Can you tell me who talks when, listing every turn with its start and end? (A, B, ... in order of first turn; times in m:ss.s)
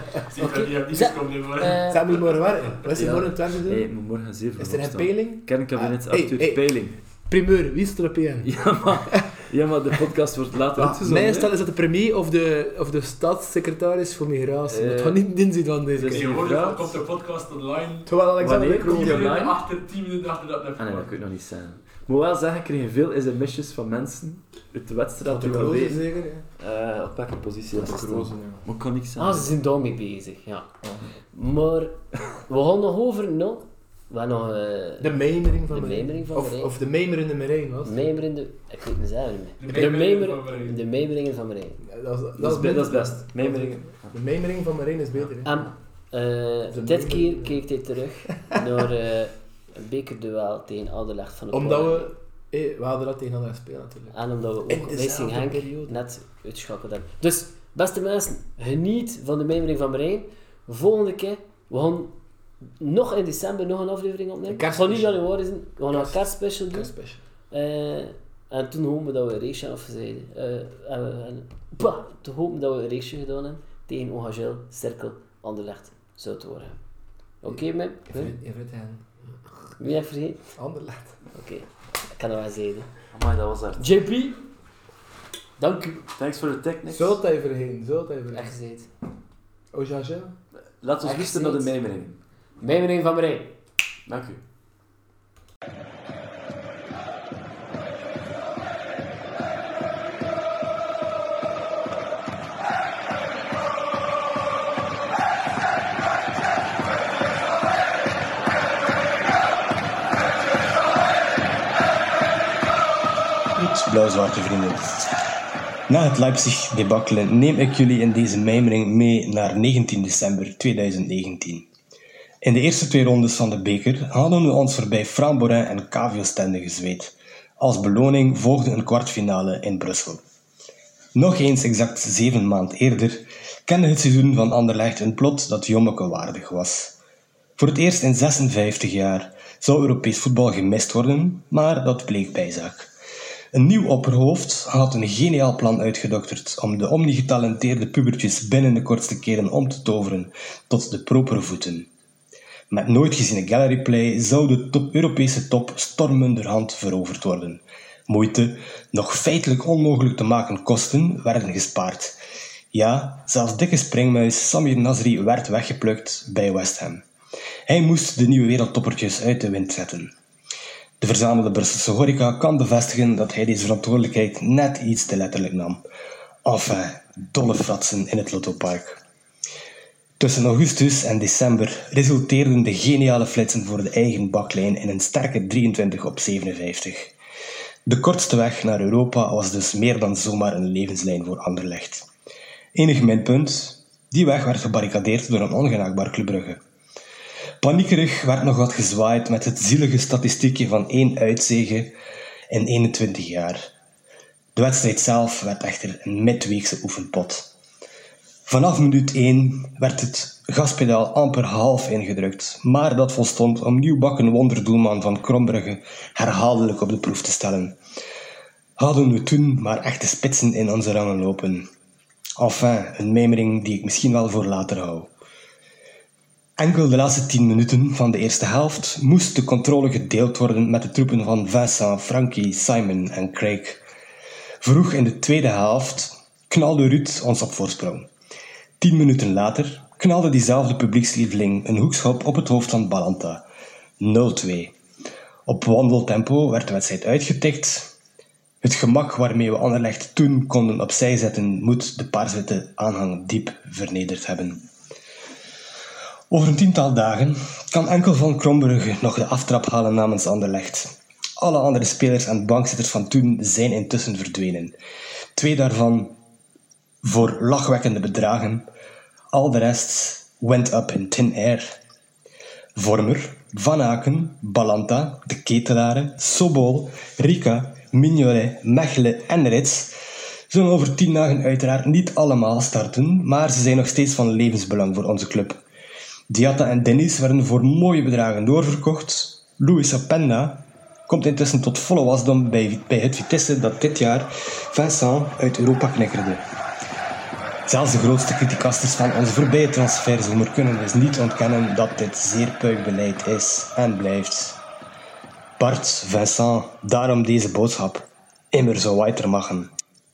0:00.2-0:02.4 A
0:00.4-0:02.1 B
0:01.9-0:03.9 C
0:02.9-0:07.0 D
0:04.6-0:09.2 C
0:08.4-0:11.5 D
0:10.8-0:16.5 C
0:14.7-0:15.2 D
0:16.0-0:17.0 D
0:16.1-0:21.1 A
0:18.0-0:19.5 C
0:18.4-0:19.6 D
0:20.8-0:26.0 D
0:25.2-0:26.4 C
0:26.6-0:29.5 D
0:27.7-0:28.6 C
0:29.2-0:30.7 B
0:31.3-0:35.1 B
0:35.0-0:38.0 C
0:35.7-0:36.7 B
0:37.8-0:41.8 B
0:39.6-0:40.8 A
0:41.8-0:45.6 C
0:42.4-0:44.1 D
0:45.4-0:52.1 B
0:46.7-0:47.6 C
0:51.5-0:54.2 C
0:54.1-1:02.2 B
0:54.7-0:56.0 C
1:02.8-1:06.9 B
1:04.5-1:05.2 C
1:05.9-1:07.2 C
1:07.5-1:16.8 B
1:17.4-1:18.4 B
1:18.1-1:19.1 C
1:19.8-1:20.5 B
1:20.5-1:21.2 C
1:21.3-1:22.9 B
1:23.1-1:23.8 D
1:23.8-1:24.4 B
1:25.6-1:26.0 B
1:26.2-1:27.2 D
1:26.8-1:28.5 C
1:28.3-1:28.9 B
1:29.7-1:30.3 C
1:30.8-1:32.2 D
1:31.0-1:31.7 B
1:32.6-1:33.6 B
1:34.0-1:34.4 D
1:53.6-1:55.1 E
1:55.9-2:01.7 E
2:02.4-2:10.2 E
2:11.1-2:17.0 E
2:17.6-2:22.9 E
2:23.5-2:31.9 E
2:32.7-2:42.2 E
2:42.7-2:47.0 E
2:47.7-2:50.1 E
2:51.0-2:55.8 E
2:56.4-2:59.0 E
3:00.2-3:07.1 E
3:07.8-3:12.1 E
3:12.7-3:16.6 E
3:17.6-3:21.9 E
3:22.5-3:23.7 E
3:24.5-3:27.5 E
3:28.4-3:37.8 E
3:38.8-3:41.7 E
3:42.4-3:45.1 E
3:46.6-3:53.8 E
3:54.6-3:58.1 E
3:58.8-4:03.4 E
4:04.0-4:04.8 E
4:05.4-4:07.9 E
4:08.6-4:14.6 E
4:16.3-4:24.7 E
4:25.4-4:26.2 E
4:27.0-4:28.7 E
4:29.3-4:31.7 E
4:32.8-4:40.0 E
4:40.5-4:45.6 E
4:46.3-4:56.4 E
4:57.7-5:04.6 E
5:05.6-5:09.7 E